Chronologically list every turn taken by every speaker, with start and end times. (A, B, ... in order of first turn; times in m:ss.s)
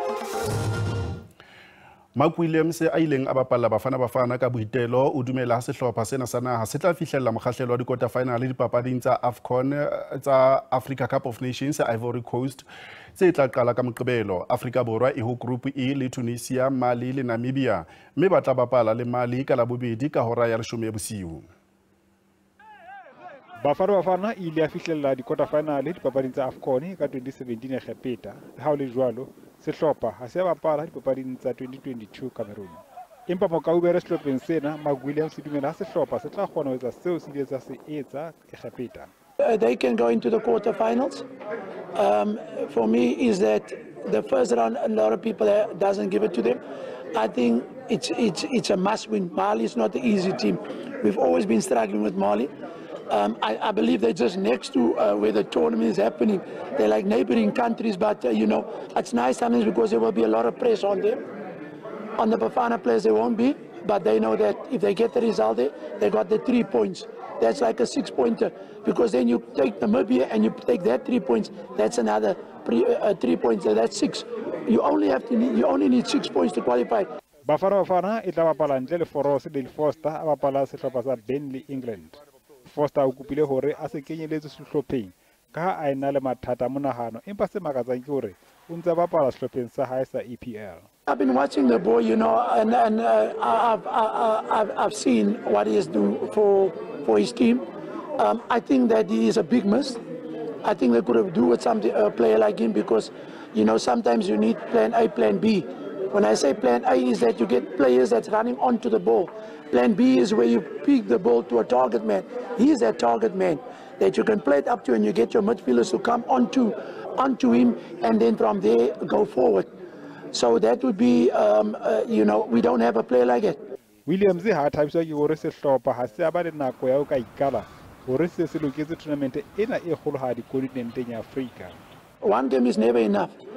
0:02.2-0:21.5 A
0:23.6-0:39.1 B
0:39.4-0:41.3 C
0:42.0-0:46.6 C
0:47.1-0:52.5 C
0:53.1-1:01.2 C
1:02.2-1:17.1 C
1:17.5-1:30.9 B
1:31.1-1:37.7 C
1:38.2-1:40.0 C
1:40.6-1:59.7 C
2:00.3-2:03.6 C
2:04.1-2:11.8 B
2:12.2-2:13.3 C